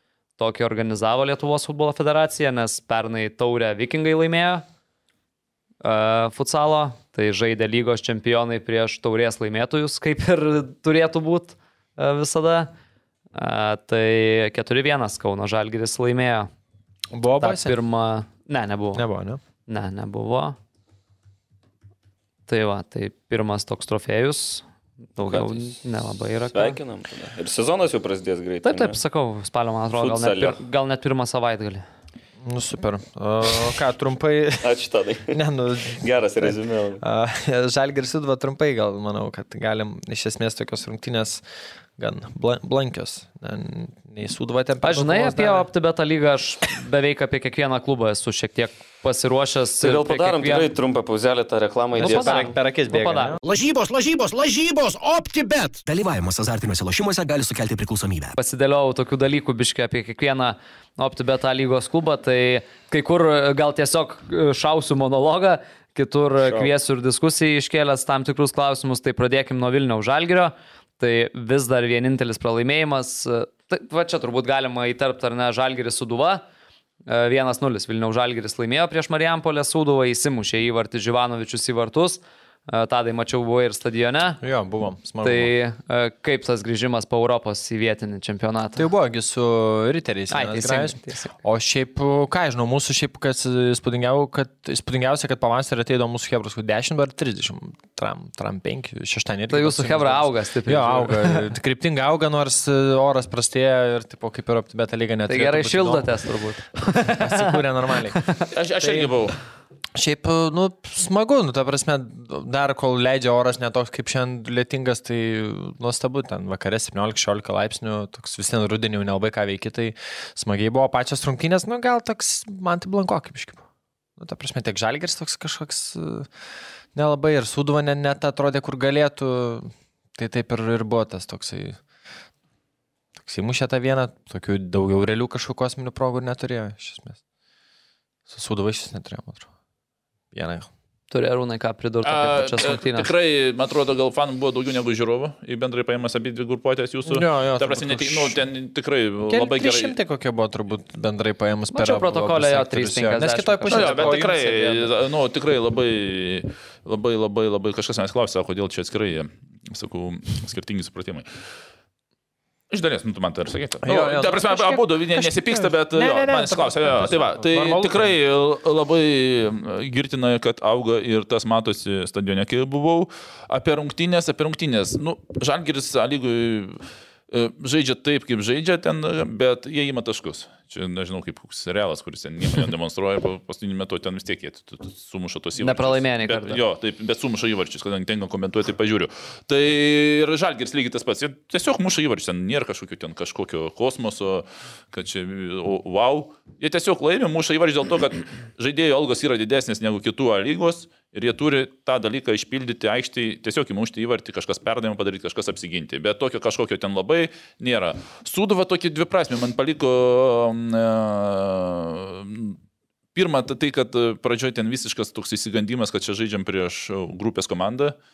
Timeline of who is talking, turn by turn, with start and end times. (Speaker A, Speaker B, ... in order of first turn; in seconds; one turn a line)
Speaker A: 0.4-4.6
Speaker A: 5.8-12.7
Speaker A: 13.3-16.5
Speaker B: 17.1-17.8
Speaker A: 17.4-19.0
Speaker B: 18.9-19.4
Speaker A: 19.7-20.6
Speaker A: 22.5-24.6
Speaker A: 25.2-26.8
Speaker C: 25.2-25.8
Speaker C: 26.5-29.0
Speaker A: 28.6-31.8
Speaker C: 29.9-30.6
Speaker B: 32.4-34.8
Speaker C: 34.6-37.0
Speaker B: 35.3-41.4
Speaker B: 42.0-45.7
Speaker A: 44.8-50.7
Speaker C: 49.8-52.5
Speaker B: 52.0-53.4
Speaker A: 52.0-53.4
Speaker D: 53.4-55.9
Speaker E: 55.9-58.4
Speaker A: 58.4-76.4
Speaker C: 66.4-66.7
Speaker A: 77.1-84.4
Speaker B: 84.4-85.5
Speaker A: 85.2-88.9
Speaker B: 88.8-106.1
Speaker A: 90.3-91.3
Speaker A: 99.5-101.5
Speaker A: 105.3-107.4
Speaker B: 107.0-108.3
Speaker F: 108.5-109.4
Speaker B: 108.8-109.1
Speaker B: 110.0-123.7
Speaker B: 124.2-126.3
Speaker B: 127.0-131.8
Speaker B: 133.2-137.2
Speaker B: 138.3-139.5
Speaker B: 140.3-140.7
Speaker A: 141.1-143.1
Speaker F: 142.1-149.9
Speaker B: 147.1-148.4
Speaker B: 149.2-154.3
Speaker A: 151.7-154.9
Speaker F: 153.7-161.3
Speaker F: 162.7-212.6
Speaker B: 163.8-168.0
Speaker A: 185.6-186.6
Speaker F: 213.2-218.0